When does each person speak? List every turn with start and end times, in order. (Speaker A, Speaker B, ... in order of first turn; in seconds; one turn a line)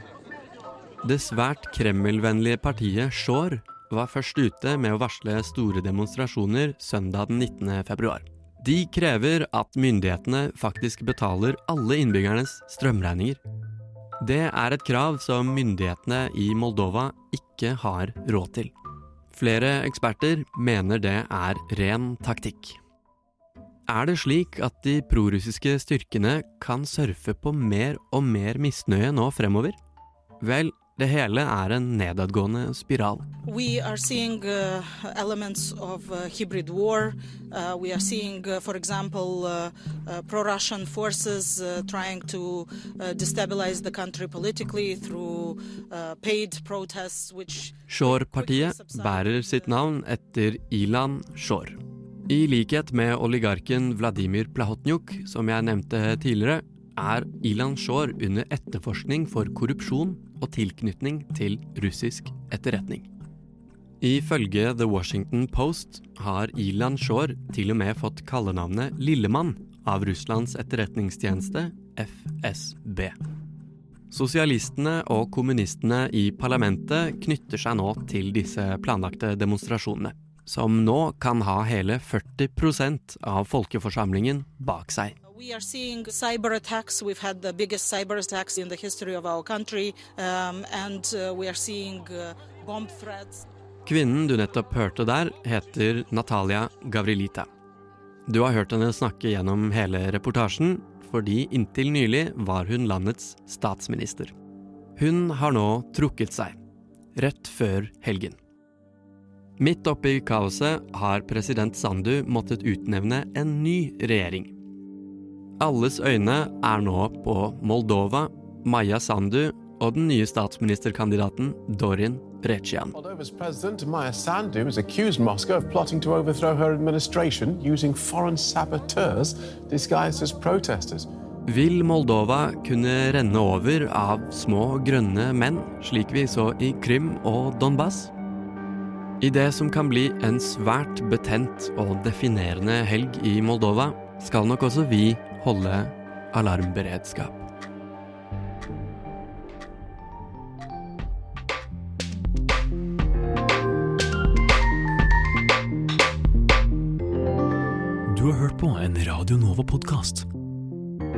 Speaker A: 1.0-13.4
Speaker A: 14.2-18.7
Speaker A: 19.3-22.8
Speaker A: 23.9-29.8
Speaker A: 30.4-33.2
Speaker B: 33.5-49.8
Speaker A: 47.9-63.1
Speaker A: 64.0-73.1
Speaker A: 74.1-85.2
Speaker B: 85.3-93.4
Speaker A: 93.8-97.5
Speaker A: 98.3-104.3
Speaker A: 105.0-106.6
Speaker A: 107.2-108.4
Speaker A: 109.6-114.5
Speaker A: 115.6-123.0
Speaker C: 122.9-131.1
Speaker A: 131.5-138.1
Speaker A: 139.2-147.5
Speaker D: 158.1-160.3